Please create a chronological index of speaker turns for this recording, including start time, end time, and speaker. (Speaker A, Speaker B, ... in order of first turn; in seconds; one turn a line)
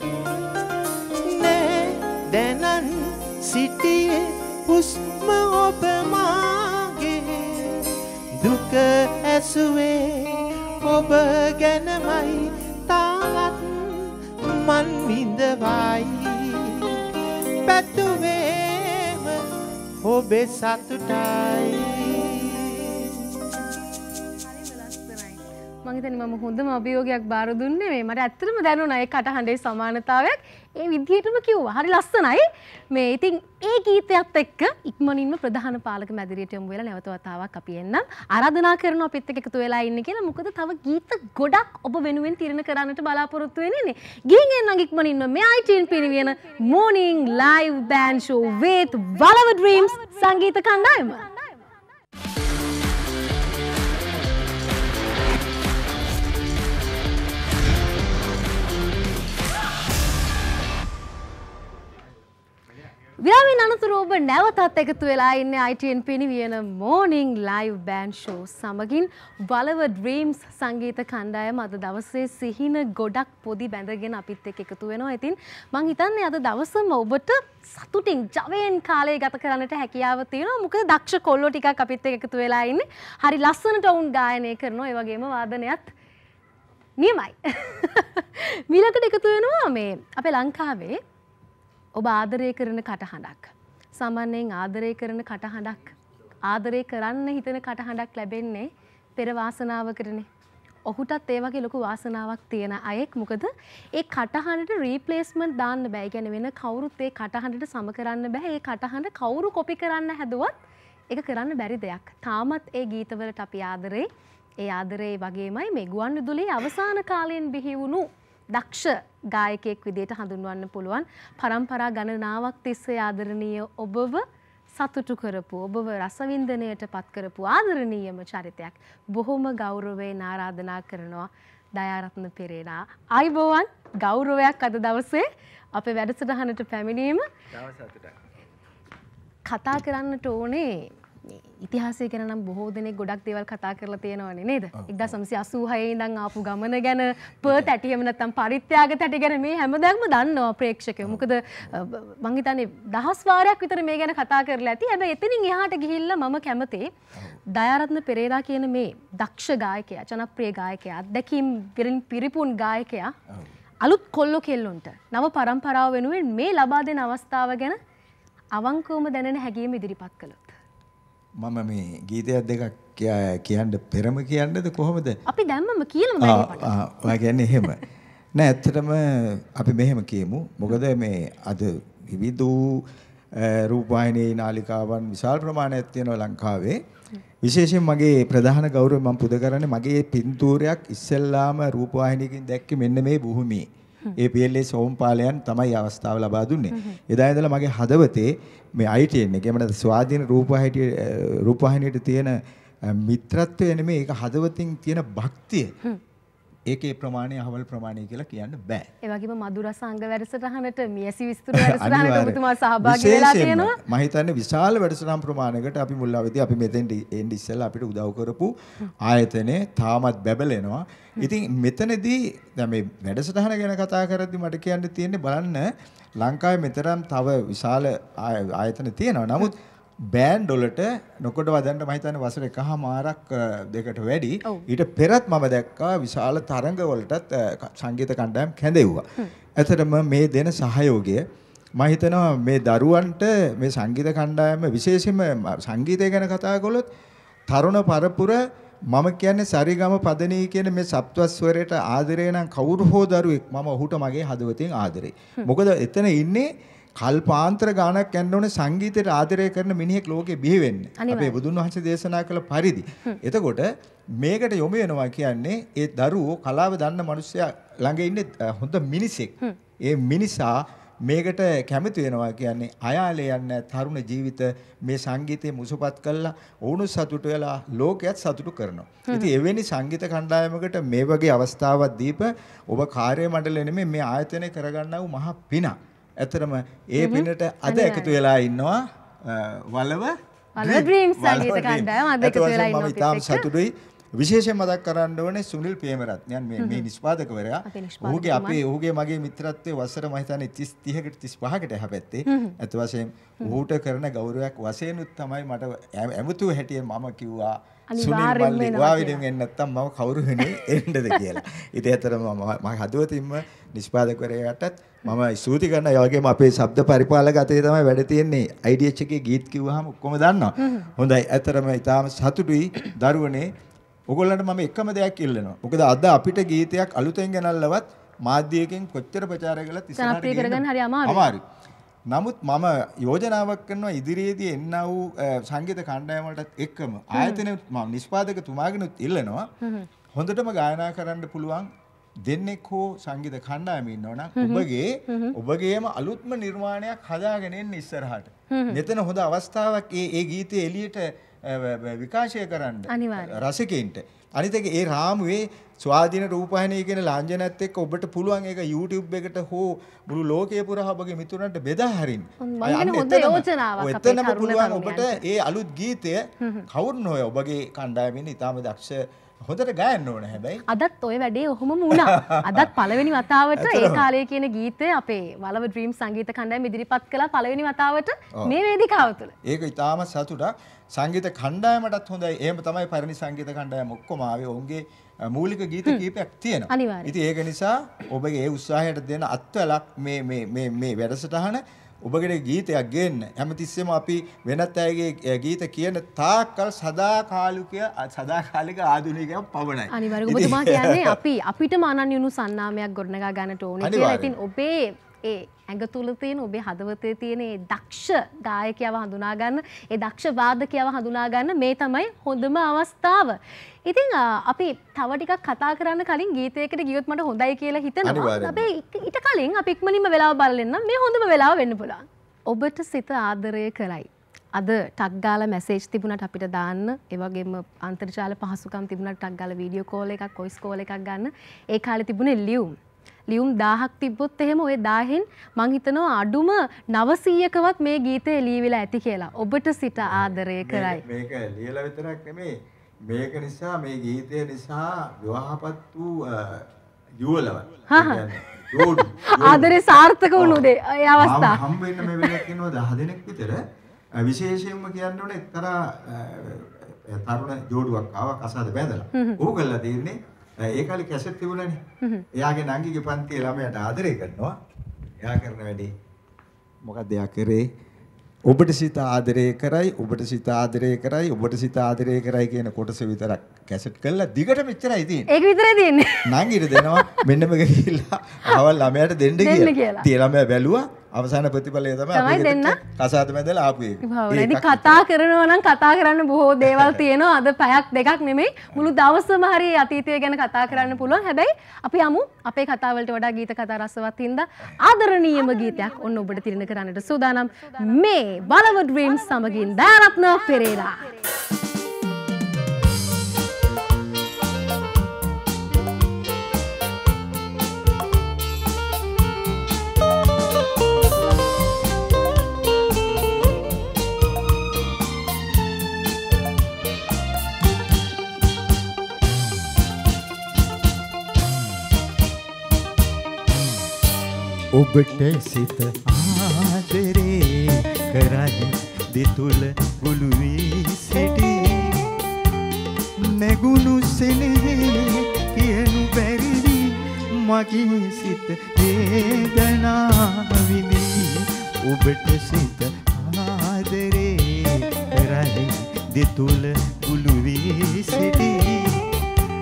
Speaker A: 1.3-7.8
Speaker A: 8.4-10.3
Speaker A: 10.8-13.8
Speaker A: 14.4-16.5
Speaker A: 17.7-19.4
Speaker A: 20.1-22.3
Speaker B: 24.5-51.3
Speaker B: 63.2-85.9
Speaker B: 87.0-91.0
Speaker B: 92.0-100.3
Speaker B: 100.9-110.5
Speaker B: 111.1-114.1
Speaker B: 114.6-124.2
Speaker B: 124.8-137.2
Speaker B: 139.5-156.9
Speaker B: 157.5-163.1
Speaker B: 163.8-167.8
Speaker B: 168.6-170.6
Speaker C: 171.4-175.2
Speaker B: 175.3-176.7
Speaker C: 176.2-177.8
Speaker C: 178.3-182.9
Speaker C: 183.4-186.8
Speaker C: 187.4-202.3
Speaker C: 202.9-205.7
Speaker C: 206.7-208.9
Speaker B: 209.0-213.8
Speaker C: 211.5-218.5
Speaker C: 219.0-225.7
Speaker C: 226.2-229.6
Speaker C: 230.1-239.0
Speaker C: 239.6-241.2
Speaker C: 241.8-246.8
Speaker C: 247.5-248.4
Speaker C: 248.9-256.5
Speaker C: 257.0-263.7
Speaker B: 261.0-261.4
Speaker C: 264.2-269.3
Speaker C: 269.9-323.5
Speaker B: 287.0-288.1
Speaker B: 290.6-293.5
Speaker B: 296.6-296.9
Speaker B: 297.6-298.6
Speaker B: 302.3-302.6
Speaker B: 307.9-309.2
Speaker B: 320.6-320.9
Speaker C: 324.1-331.4
Speaker B: 330.0-331.3
Speaker C: 332.1-339.5
Speaker B: 339.6-339.9
Speaker C: 340.1-341.7
Speaker C: 342.3-370.6
Speaker B: 344.4-345.3
Speaker B: 348.5-348.8
Speaker B: 352.9-353.4
Speaker B: 362.4-365.2
Speaker B: 370.7-379.3
Speaker C: 371.9-372.7
Speaker C: 373.6-374.1
Speaker C: 379.5-401.1
Speaker B: 386.7-387.1
Speaker B: 399.9-432.8
Speaker C: 403.8-404.3
Speaker C: 418.0-418.7
Speaker B: 433.3-441.0
Speaker C: 440.6-442.5
Speaker C: 443.1-446.7
Speaker C: 447.2-449.8
Speaker B: 447.9-448.2
Speaker B: 448.8-452.4
Speaker C: 450.4-450.6
Speaker C: 451.2-453.6
Speaker C: 454.2-461.8
Speaker C: 462.4-464.6
Speaker C: 465.2-465.9
Speaker C: 466.9-467.6
Speaker C: 468.5-475.3
Speaker B: 475.3-476.3
Speaker C: 476.3-485.0
Speaker B: 476.9-477.2
Speaker B: 479.4-480.1
Speaker B: 482.1-482.8
Speaker B: 484.0-501.1
Speaker C: 486.8-487.0
Speaker D: 524.8-531.9
Speaker D: 533.3-548.9